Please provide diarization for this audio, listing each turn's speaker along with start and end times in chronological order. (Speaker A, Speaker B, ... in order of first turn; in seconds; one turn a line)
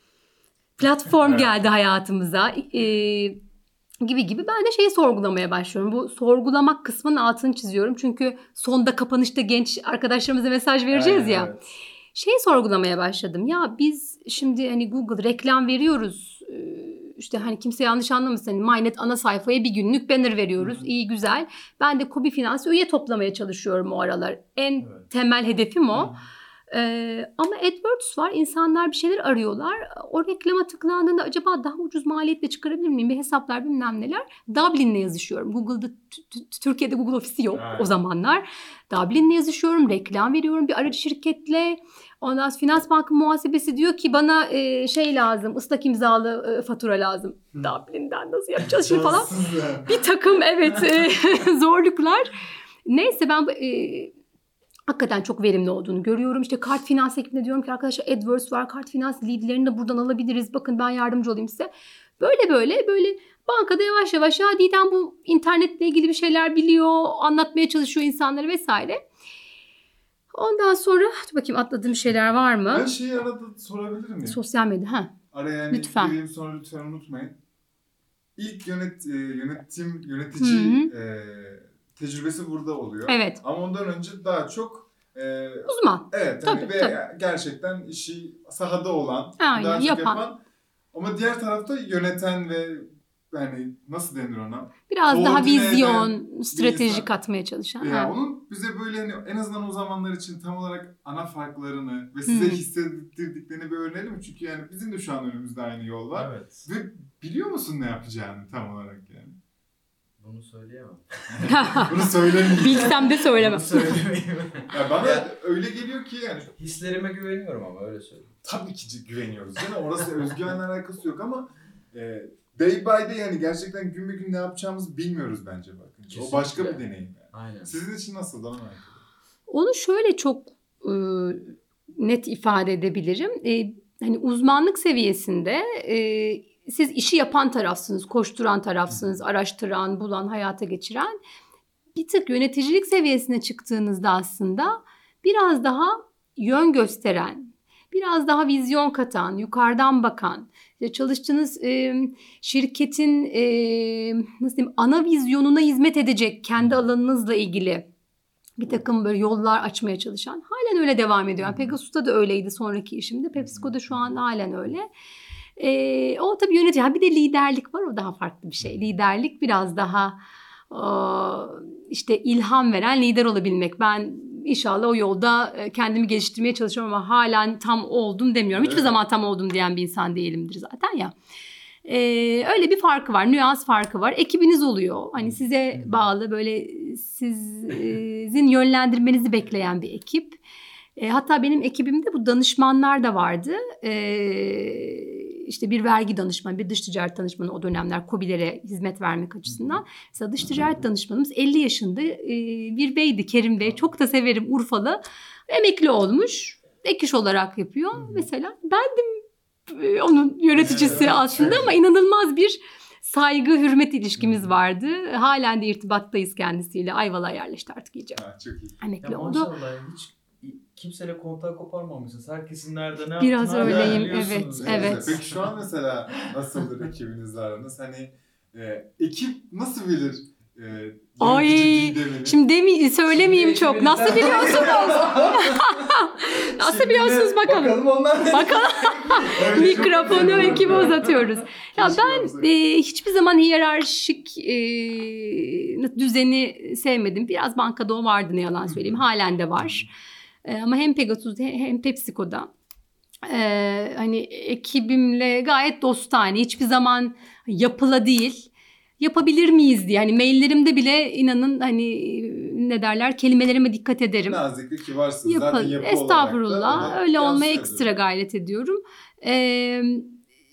Speaker A: 0.8-3.4
Speaker B: 1.2-1.6
Speaker A: 4.0-11.5
Speaker C: 10.9-11.6
Speaker A: 12.1-26.1
Speaker B: 20.6-20.8
Speaker C: 24.8-25.1
Speaker B: 25.9-26.2
Speaker A: 26.7-52.3
Speaker C: 37.5-37.9
Speaker B: 48.6-50.0
Speaker A: 52.9-54.1
Speaker A: 54.9-69.0
Speaker A: 70.3-72.9
Speaker B: 72.7-74.4
Speaker A: 74.2-75.1
Speaker B: 75.3-77.4
Speaker A: 75.7-76.1
Speaker B: 78.4-90.4
Speaker A: 80.4-80.9
Speaker A: 83.1-83.4
Speaker A: 85.7-87.0
Speaker A: 89.4-90.2
Speaker B: 90.9-97.1
Speaker A: 94.9-98.1
Speaker B: 97.8-109.4
Speaker A: 102.2-102.6
Speaker C: 106.1-106.6
Speaker C: 110.2-115.3
Speaker B: 111.3-113.2
Speaker A: 111.5-111.9
Speaker A: 112.4-114.0
Speaker B: 114.7-116.5
Speaker C: 116.6-118.3
Speaker B: 118.4-129.0
Speaker C: 126.1-126.8
Speaker C: 127.3-127.7
Speaker A: 129.5-141.2
Speaker A: 141.9-157.9
Speaker A: 158.6-164.9
Speaker B: 161.4-161.7
Speaker B: 163.4-164.1
Speaker A: 165.6-170.2
Speaker A: 170.7-181.1
Speaker B: 178.6-178.9
Speaker A: 181.8-190.4
Speaker A: 191.0-218.2
Speaker B: 199.5-199.8
Speaker B: 210.6-211.8
Speaker C: 210.6-211.7
Speaker B: 214.2-214.5
Speaker B: 218.1-218.8
Speaker A: 218.8-219.5
Speaker C: 219.0-225.4
Speaker A: 223.2-225.1
Speaker B: 223.6-232.4
Speaker A: 231.2-249.9
Speaker C: 233.1-241.4
Speaker B: 239.3-242.5
Speaker B: 248.7-249.0
Speaker B: 249.6-249.8
Speaker A: 250.4-252.5
Speaker A: 253.2-258.5
Speaker A: 259.0-264.4
Speaker B: 264.2-267.9
Speaker A: 265.2-270.1